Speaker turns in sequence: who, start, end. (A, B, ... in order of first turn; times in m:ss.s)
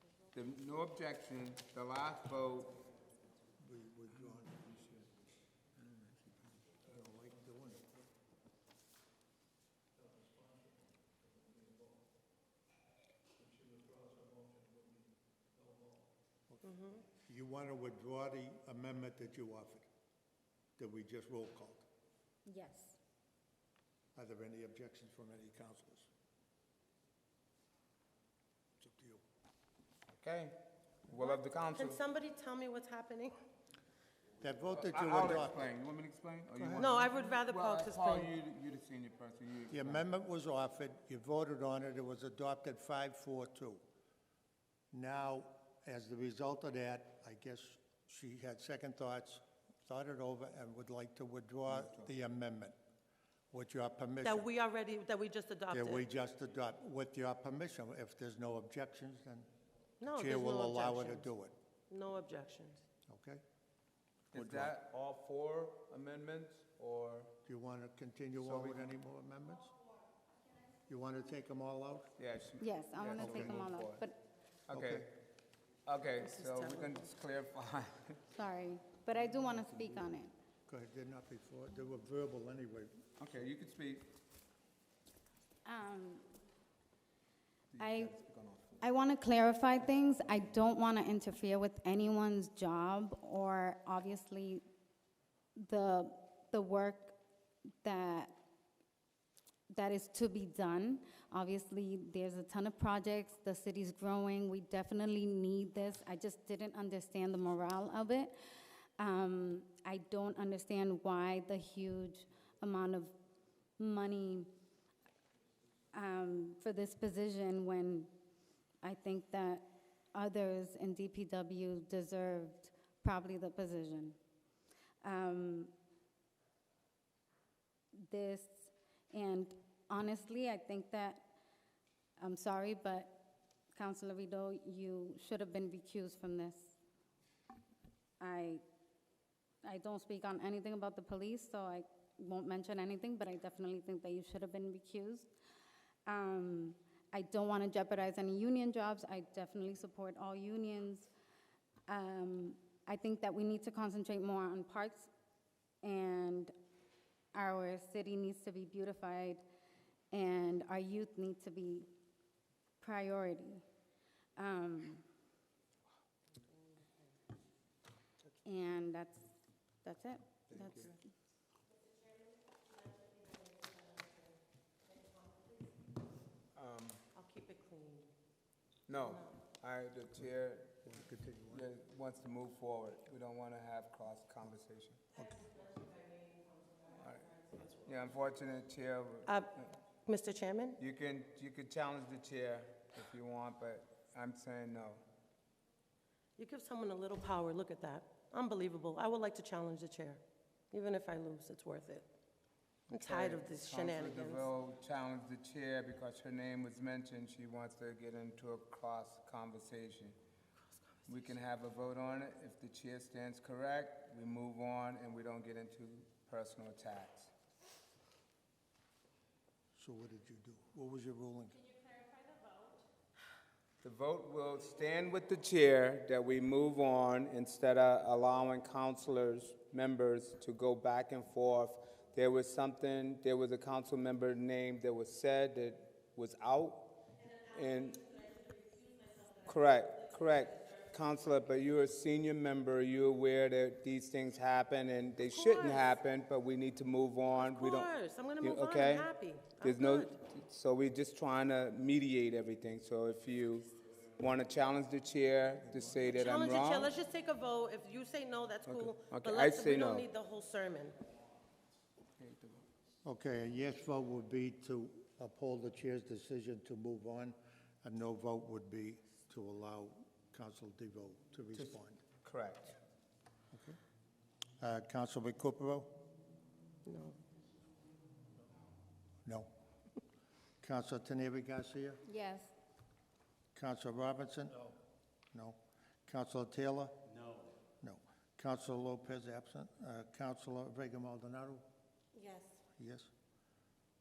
0:00.3-0:02.8 A
0:03.6-0:04.7 B
0:04.2-0:04.8 A
0:05.8-0:06.3 A
0:06.8-0:07.9 B
0:13.4-0:14.9 B
0:16.5-0:19.8 B
0:20.8-0:21.8 B
0:22.4-0:23.0 C
0:24.1-0:26.1 B
0:28.8-0:29.2 B
0:30.2-0:30.6 A
0:31.1-0:32.0 A
0:31.2-0:33.4 D
0:34.4-0:35.7 B
0:34.8-0:40.0 A
0:36.6-0:36.8 B
0:36.8-0:38.3 D
0:39.7-0:43.8 B
0:44.9-0:52.8 B
0:51.7-0:52.1 A
0:53.5-0:54.5 B
0:54.2-0:56.0 D
0:55.7-0:59.5 B
1:00.0-1:01.3 D
1:00.1-1:01.5 B
1:01.9-1:02.8 D
1:03.1-1:03.4 B
1:04.3-1:07.3 A
1:04.3-1:04.7 B
1:07.4-1:09.8 B
1:08.4-1:08.9 A
1:10.9-1:12.1 B
1:12.2-1:14.0 A
1:12.6-1:14.2 C
1:13.2-1:13.7 B
1:14.7-1:15.1 A
1:14.7-1:15.1 B
1:15.8-1:18.2 A
1:16.2-1:17.0 D
1:18.3-1:20.3 C
1:20.7-1:23.0 B
1:23.2-1:24.1 A
1:25.6-1:26.3 C
1:27.7-1:28.8 A
1:27.8-1:28.1 C
1:28.8-1:34.6 C
1:35.6-1:37.1 C
1:37.8-1:38.3 C
1:39.7-1:48.4 C
1:49.0-1:53.1 C
1:53.8-1:54.5 C
1:55.9-1:58.1 C
1:58.8-2:04.2 C
2:05.0-2:05.7 C
2:08.0-2:11.3 C
2:12.2-2:16.8 C
2:18.2-2:18.6 C
2:19.6-2:25.3 C
2:26.0-2:31.1 C
2:31.9-2:35.1 C
2:35.8-2:36.5 C
2:37.3-2:39.4 C
2:40.1-2:41.9 C
2:42.8-2:43.6 C
2:44.4-2:45.0 C
2:48.4-2:49.3 C
2:49.8-2:51.0 C
2:50.5-2:50.8 B
2:56.5-2:57.0 A
2:57.1-2:58.1 D
2:58.9-3:05.0 A
2:59.0-2:59.3 D
3:00.8-3:01.7 B
3:05.1-3:05.5 B
3:05.5-3:07.8 D
3:06.9-3:07.3 A
3:07.8-3:09.7 A
3:09.2-3:09.5 D
3:10.0-3:10.8 D
3:10.8-3:15.0 A
3:16.4-3:22.1 D
3:22.9-3:24.5 D
3:22.9-3:30.2 A
3:31.0-3:37.3 A
3:39.8-3:41.7 B
3:43.8-3:58.1 A
3:59.4-4:09.1 A
4:05.2-4:05.9 D
4:07.4-4:10.2 D
4:09.6-4:16.9 A
4:16.0-4:21.0 D
4:18.7-4:20.0 A
4:22.2-4:22.6 A
4:23.0-4:32.0 B
4:31.5-4:32.8 A
4:33.5-4:33.8 B
4:34.6-4:35.9 B
4:36.8-4:37.2 D
4:39.2-4:39.5 B
4:40.6-4:42.0 B
4:42.0-4:42.5 C
4:43.5-4:44.7 B
4:45.3-4:47.0 B
4:47.8-4:51.6 B
4:52.1-4:52.6 D
4:52.8-4:53.1 B